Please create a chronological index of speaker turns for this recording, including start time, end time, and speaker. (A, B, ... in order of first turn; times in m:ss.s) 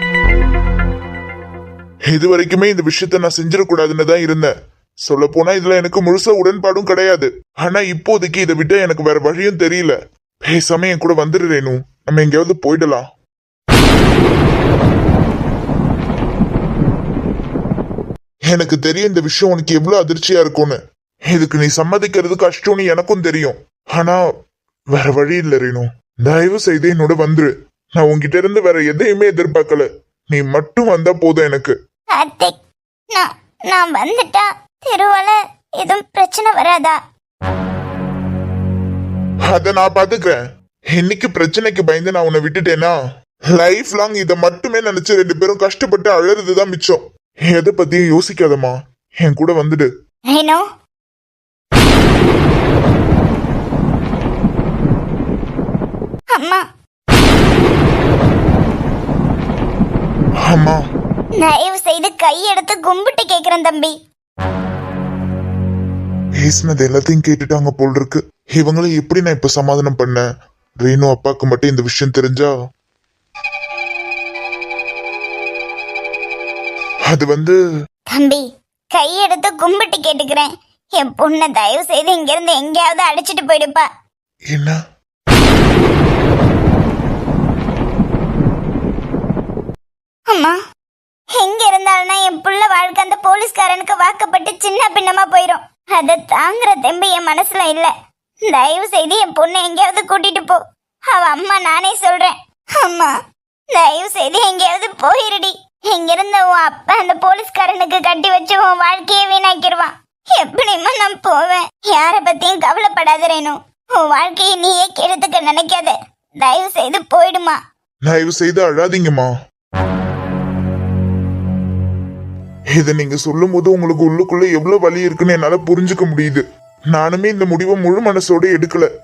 0:02.1-0:04.5 A
0:05.1-0:13.0 A
0:18.5-0:20.8 A
0:21.3-0:24.2 A
0:24.9-0:31.7 A
0:32.1-0:32.5 B
0:33.1-0:37.0 B
0:39.5-0:40.4 A
0:40.9-0:43.0 A
0:43.6-0:49.9 A
0:50.3-0:50.6 B
0:56.3-0:56.6 B
1:00.4-1:00.8 A
1:01.4-1:03.9 B
1:06.4-1:10.2 A
1:10.8-1:12.5 A
1:17.1-1:17.6 A
1:18.1-1:23.9 B
1:24.5-1:24.8 A
1:30.3-1:30.6 B
1:31.3-1:37.9 B
1:38.5-1:40.6 B
1:41.1-1:43.1 B
1:43.7-1:57.6 B
1:58.1-1:59.3 A
2:02.7-2:08.9 A